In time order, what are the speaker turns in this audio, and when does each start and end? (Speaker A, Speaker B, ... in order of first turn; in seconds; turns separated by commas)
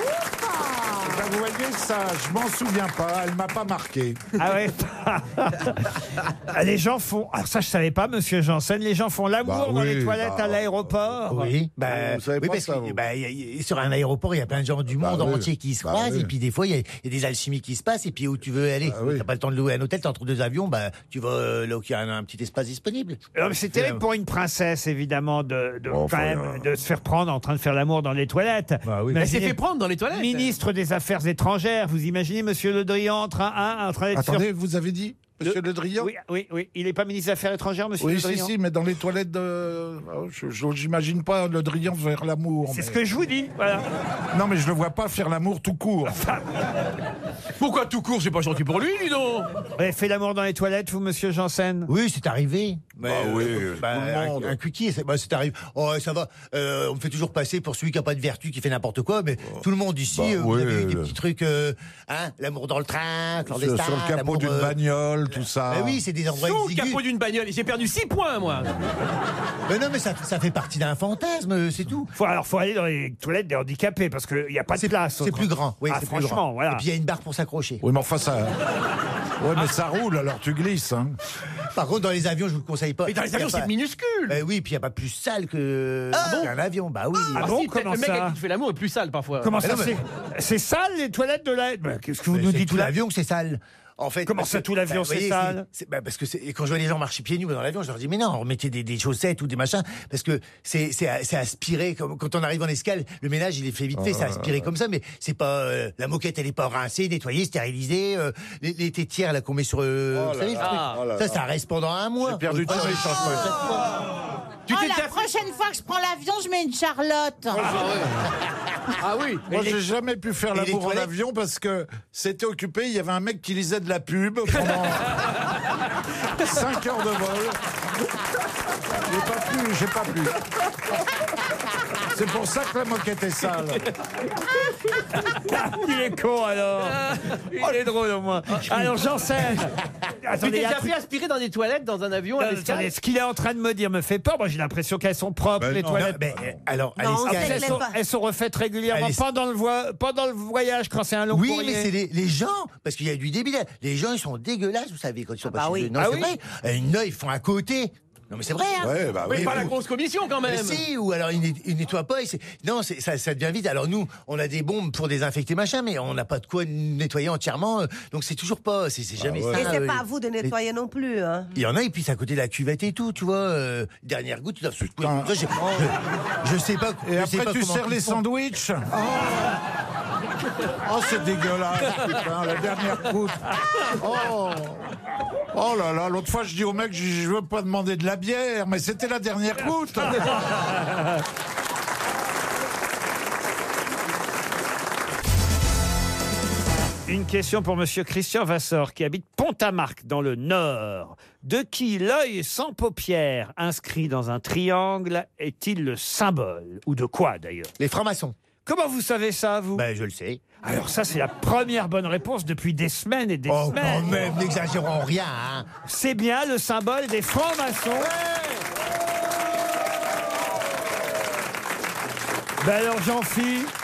Speaker A: 0.2-1.2, Speaker B: 1.0-4.2, Speaker C: 4.4-11.5, Speaker B: 9.4-13.0, Speaker D: 11.3-24.0, Speaker B: 15.0-16.3, Speaker B: 18.9-19.2, Speaker C: 23.4-29.6, Speaker B: 25.9-26.7, Speaker D: 28.8-29.3, Speaker E: 29.2-30.6, Speaker C: 30.1-34.5, Speaker B: 34.1-36.1, Speaker C: 35.4-38.5, Speaker B: 38.0-43.0, Speaker C: 42.7-43.9, Speaker B: 44.3-46.2, Speaker C: 46.1-46.7, Speaker E: 47.6-49.5, Speaker C: 49.8-51.9, Speaker D: 51.9-64.8, Speaker B: 53.0-54.6, Speaker B: 59.5-61.1, Speaker B: 63.5-66.0, Speaker D: 65.7-67.0, Speaker E: 66.3-68.7, Speaker D: 69.7-72.1, Speaker C: 72.2-76.8, Speaker D: 74.7-77.8, Speaker B: 77.8-78.6, Speaker B: 79.4-81.2, Speaker D: 81.7-83.7, Speaker E: 83.1-84.4, Speaker D: 84.3-87.5, Speaker E: 86.1-86.5, Speaker E: 87.2-89.6, Speaker C: 87.3-88.4, Speaker C: 89.4-92.9, Speaker D: 89.6-90.0, Speaker D: 92.3-113.8, Speaker C: 94.3-95.6, Speaker B: 104.0-104.7, Speaker B: 110.1-111.4, Speaker E: 110.6-111.0, Speaker B: 112.2-113.7, Speaker E: 114.7-115.2, Speaker F: 114.7-117.7, Speaker B: 117.6-118.0, Speaker E: 117.6-118.1, Speaker E: 119.0-119.5, Speaker B: 119.5-125.2, Speaker D: 120.5-121.1, Speaker E: 124.6-125.0, Speaker B: 126.4-127.6, Speaker B: 129.0-130.3, Speaker B: 132.1-133.8, Speaker C: 135.2-137.0, Speaker E: 136.8-137.7, Speaker C: 137.6-139.7, Speaker C: 140.2-140.9, Speaker E: 140.4-142.9, Speaker C: 142.4-146.2, Speaker B: 145.6-146.6, Speaker D: 145.9-147.8, Speaker A: 147.0-147.9, Speaker C: 147.2-151.9, Speaker D: 148.9-149.2, Speaker D: 151.3-159.7, Speaker A: 155.5-155.9, Speaker C: 156.0-156.3, Speaker B: 158.8-159.7, Speaker E: 159.3-160.8, Speaker D: 160.5-170.5, Speaker B: 169.2-169.7, Speaker A: 169.5-171.5, Speaker D: 171.5-178.2, Speaker B: 175.0-175.9, Speaker B: 177.1-179.6, Speaker B: 180.7-184.9, Speaker B: 185.5-190.3, Speaker C: 190.1-191.2, Speaker C: 197.1-207.7, Speaker D: 207.8-208.3, Speaker C: 208.7-209.8, Speaker D: 209.8-210.4, Speaker C: 210.6-214.4, Speaker D: 213.5-215.7, Speaker C: 215.9-218.1, Speaker D: 218.0-218.6, Speaker C: 222.6-223.7